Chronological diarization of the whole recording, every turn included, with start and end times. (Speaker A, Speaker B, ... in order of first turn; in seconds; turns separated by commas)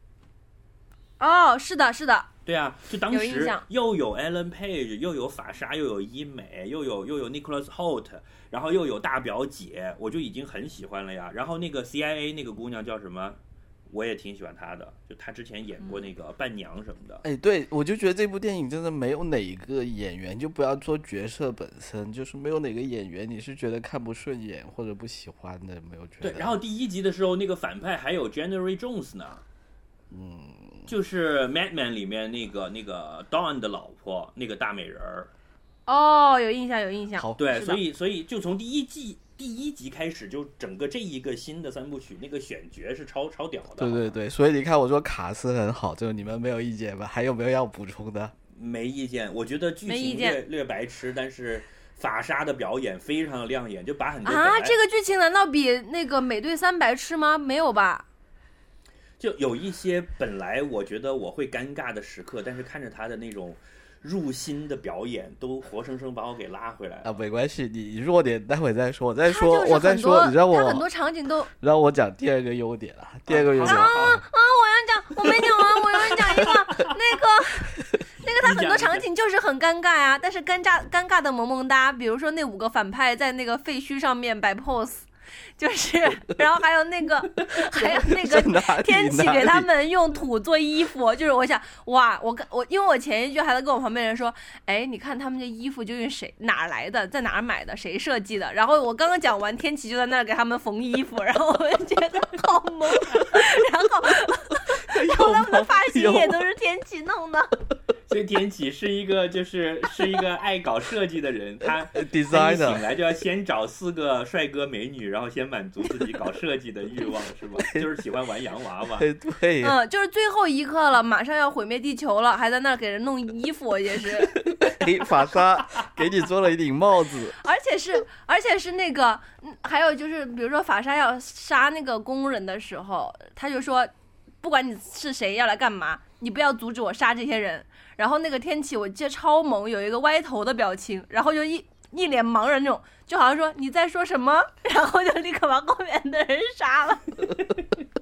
Speaker A: 1.2-2.3, Speaker B: 2.5-17.2, Speaker A: 3.1-3.6, Speaker C: 17.2-26.6, Speaker B: 26.2-29.4, Speaker C: 30.1-30.9, Speaker B: 30.9-35.3, Speaker A: 35.9-37.8, Speaker C: 37.1-37.4, Speaker B: 37.4-44.1, Speaker C: 43.8-48.3, Speaker B: 48.5-54.8, Speaker A: 49.9-50.4, Speaker A: 54.2-58.0, Speaker B: 59.2-67.1, Speaker C: 67.0-70.8, Speaker A: 69.3-71.5, Speaker C: 71.5-74.2, Speaker B: 73.3-74.2, Speaker A: 73.6-107.5, Speaker C: 75.2-75.5, Speaker B: 78.4-79.0, Speaker C: 87.8-89.7, Speaker C: 104.8-106.4, Speaker B: 108.1-119.1, Speaker C: 111.9-112.8, Speaker C: 119.0-119.8, Speaker A: 119.6-124.5, Speaker C: 124.2-127.4, Speaker A: 127.4-147.2